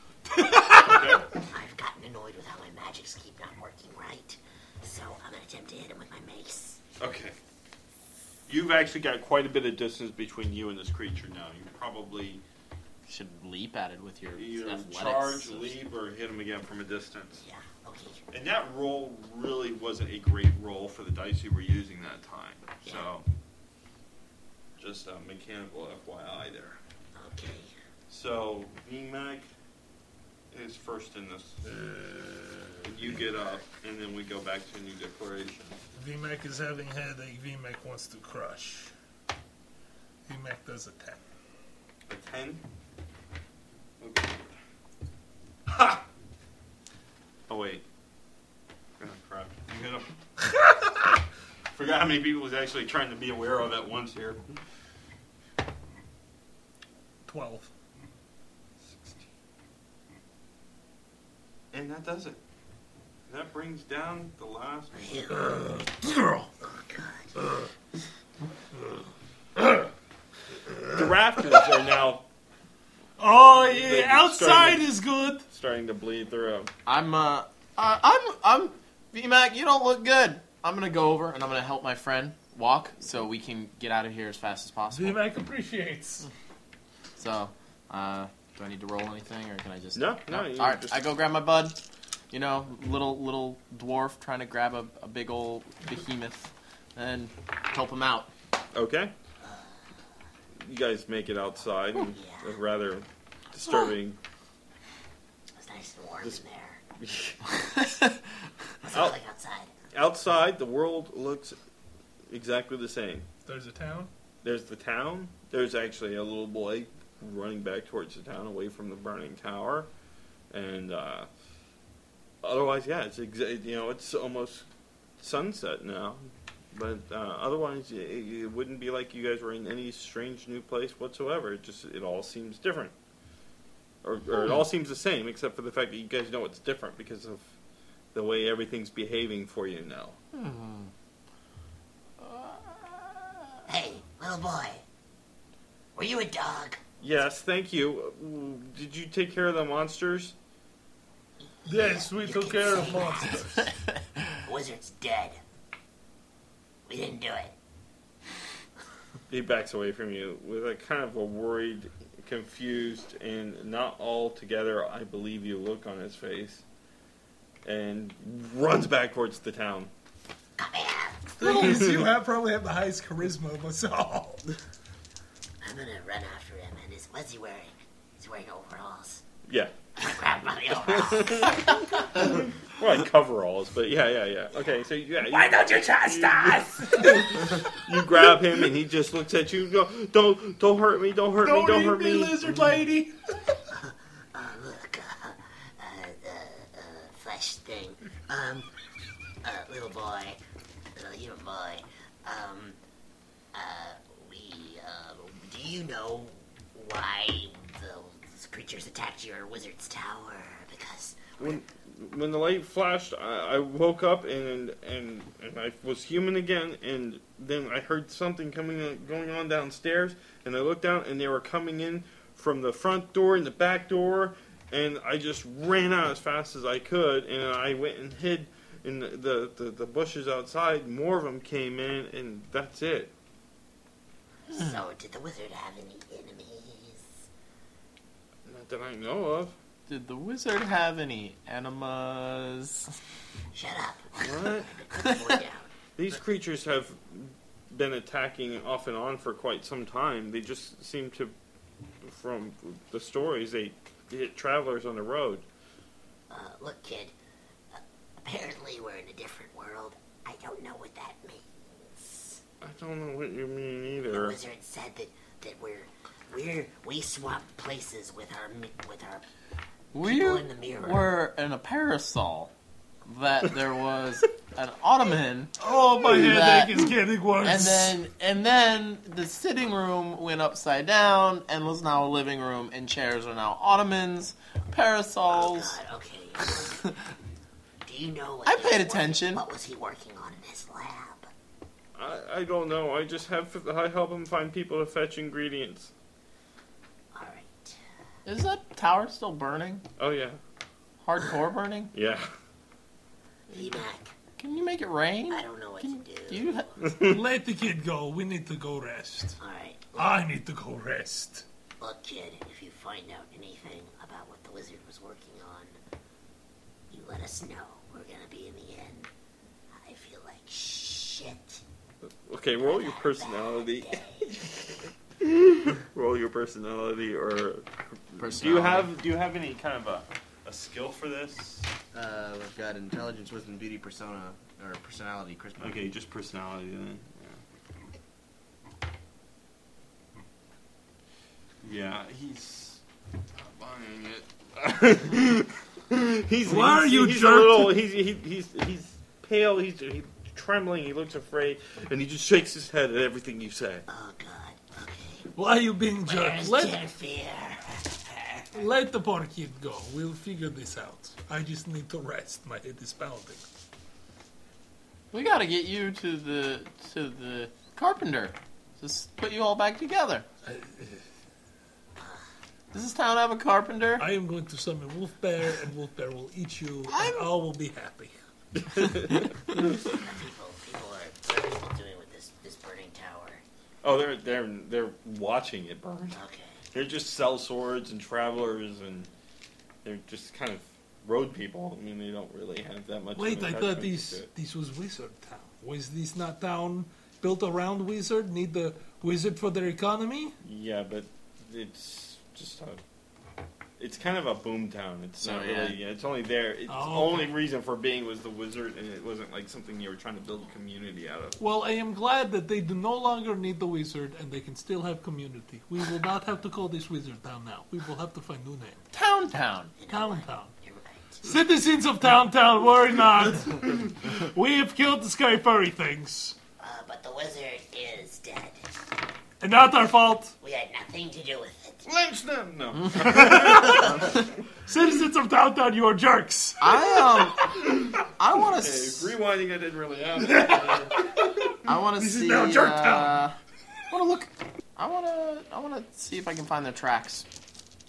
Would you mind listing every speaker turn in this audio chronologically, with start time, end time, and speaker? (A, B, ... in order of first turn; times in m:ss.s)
0:00.3-0:01.2 A
0:00.8-0:01.3 B
0:01.5-0:06.8 C
0:07.0-0:07.4 B
0:08.5-0:12.4 B
0:13.1-0:15.8 D
0:14.3-0:17.4 B
0:17.4-0:18.2 C
0:18.3-0:23.2 B
0:22.8-0:23.1 C
0:24.8-0:26.8 B
0:27.2-0:27.7 C
0:28.1-0:29.5 B
0:30.5-0:31.6 B
0:32.8-0:35.8 B
0:36.0-0:38.9 A
0:40.3-0:41.2 A
0:42.1-0:42.6 B
0:44.0-0:44.6 B
0:45.7-0:46.0 B
0:47.5-0:47.8 B
0:49.0-0:50.7 B
0:51.7-0:54.4 B
0:57.3-0:57.7 A
0:58.8-0:59.3 B
1:01.7-1:02.4 B
1:03.3-1:05.4 B
1:04.9-1:05.5 C
1:06.6-1:07.4 C
1:10.9-1:12.2 B
1:13.2-1:15.4 A
1:13.4-1:16.7 B
1:16.9-1:25.3 D
1:24.9-1:26.3 A
1:27.2-1:31.8 D
1:29.9-1:31.1 B
1:32.3-1:38.3 D
1:38.7-1:39.1 B
1:39.4-1:39.8 C
1:40.6-1:44.2 B
1:42.1-1:42.6 C
1:45.6-1:46.8 C
1:47.0-1:47.4 B
1:48.8-1:49.7 C
1:48.9-1:49.2 B
1:49.9-1:51.6 B
1:52.3-1:53.3 B
1:53.4-1:54.1 A
1:54.4-1:59.9 B
2:00.5-2:01.3 B
2:02.4-2:04.7 B
2:05.2-2:12.9 B
2:14.0-2:17.5 B
2:18.1-2:20.2 B
2:20.3-2:20.9 D
2:23.7-2:24.8 C
2:26.0-2:26.8 C
2:27.0-2:30.4 B
2:31.6-2:33.6 C
2:31.6-2:33.7 A
2:34.4-2:35.4 C
2:36.9-2:37.6 C
2:39.3-2:46.6 B
2:47.6-2:49.9 B
2:50.6-2:51.7 C
2:51.4-2:54.4 A
2:51.4-2:52.1 B
2:55.6-2:59.2 C
2:59.5-2:59.7 B
3:00.0-3:02.0 C
3:00.7-3:01.7 B
3:02.3-3:12.6 B
3:05.4-3:07.4 A
3:11.4-3:13.1 A
3:13.8-3:18.7 C
3:19.4-3:20.4 C
3:21.0-3:22.8 C
3:23.5-3:31.6 C
3:31.4-3:53.1 B
3:54.5-3:57.2 C
3:58.4-3:59.6 B
3:59.9-4:02.9 D
4:03.5-4:05.7 C
4:04.2-4:04.8 B
4:06.0-4:11.3 B
4:12.0-4:15.4 B
4:16.3-4:17.1 C
4:17.7-4:22.4 C
4:22.6-4:24.4 B
4:24.1-4:29.3 C
4:29.9-4:32.5 D
4:30.0-4:31.1 C
4:33.1-4:36.9 D
4:35.6-4:38.0 A
4:37.4-4:45.8 D
4:45.3-4:46.9 C
4:47.8-4:51.3 C
4:48.4-4:49.4 D
4:52.0-4:55.9 B
4:57.1-4:57.8 C
4:58.2-4:59.8 D
5:00.0-5:00.4 B
5:01.0-5:01.9 D
5:01.9-5:02.3 B
5:03.5-5:04.1 C
5:04.4-5:06.7 D
5:05.3-5:06.9 C
5:06.8-5:07.2 B
5:07.0-5:09.4 A
5:09.4-5:10.2 C
5:09.9-5:11.4 A
5:11.8-5:15.8 C
5:16.9-5:19.1 C
5:19.8-5:21.6 C
5:22.3-5:24.5 B
5:22.6-5:24.4 C
5:25.2-5:31.7 B
5:28.2-5:28.9 D
5:31.9-5:35.9 E
5:35.6-5:37.4 B
5:41.6-5:42.8 B
5:43.4-5:53.8 B
5:46.4-5:47.8 A
5:53.9-5:55.3 C
5:55.4-5:56.8 A
5:56.1-5:57.9 C
5:58.5-6:03.4 A
6:05.1-6:10.3 D
6:10.5-6:10.9 A
6:12.0-6:12.3 C
6:12.7-6:14.1 D
6:14.0-6:18.1 A
6:16.9-6:17.3 D
6:18.6-6:19.3 B
6:20.0-6:23.4 C
6:23.8-6:26.2 B
6:26.1-6:26.6 C
6:26.7-6:29.1 B
6:29.8-6:34.3 B
6:33.2-6:40.4 A
6:40.4-6:42.8 B
6:43.8-6:51.4 B
6:45.2-6:45.8 D
6:46.7-6:47.4 A
6:51.4-6:58.8 A
6:58.9-6:59.7 D
6:59.8-7:01.2 C
6:59.9-7:00.5 A
7:01.2-7:06.4 A
7:06.6-7:08.6 C
7:09.4-7:10.4 A
7:10.4-7:11.9 C
7:11.8-7:14.2 B
7:13.3-7:13.9 A
7:14.7-7:16.7 A
7:16.6-7:17.5 D
7:18.2-7:19.1 D
7:18.5-7:21.1 B
7:20.3-7:21.0 A
7:21.6-7:23.4 D
7:22.0-7:23.3 A
7:23.9-7:27.3 D